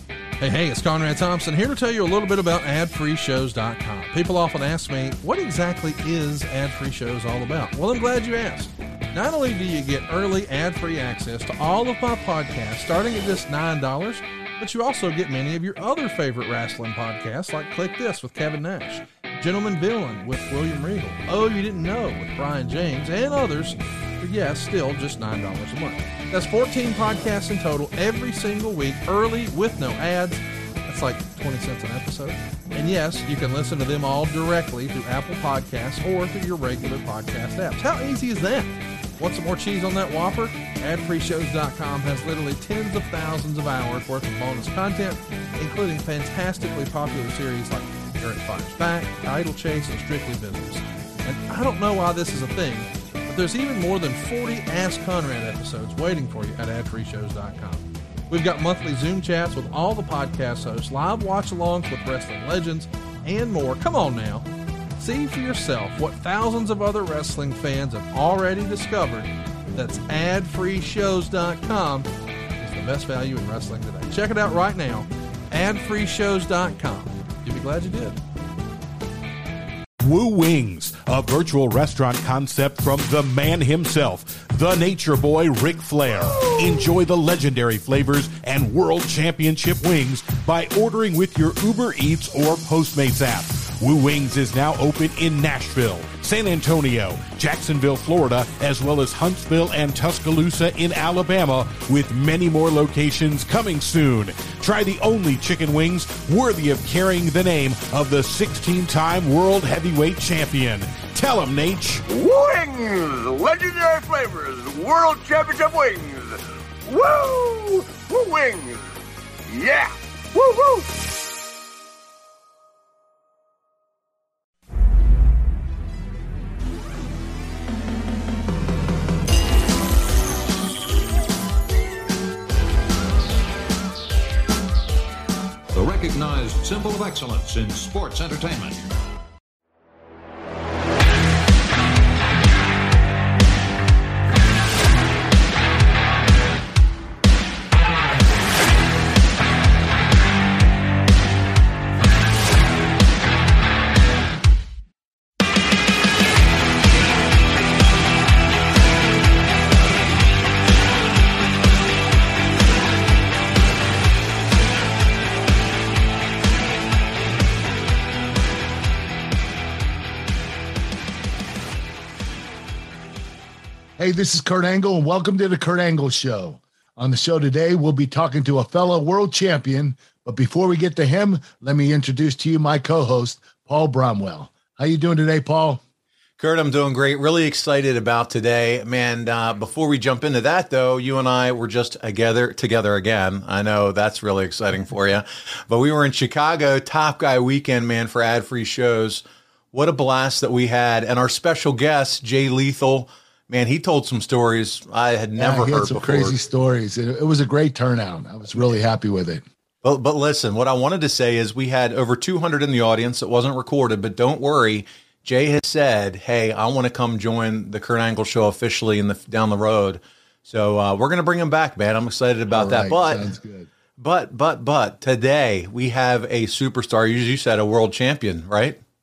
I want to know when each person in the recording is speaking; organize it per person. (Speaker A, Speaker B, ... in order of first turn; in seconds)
Speaker A: 0.4-72.1, 72.6-78.2
Speaker B: 80.0-112.0
Speaker C: 112.1-119.0, 119.5-120.9
Speaker D: 135.7-138.9
Speaker E: 174.0-185.8, 205.4-209.4, 222.5-223.7
Speaker F: 186.4-206.3, 209.8-223.3, 224.0-228.8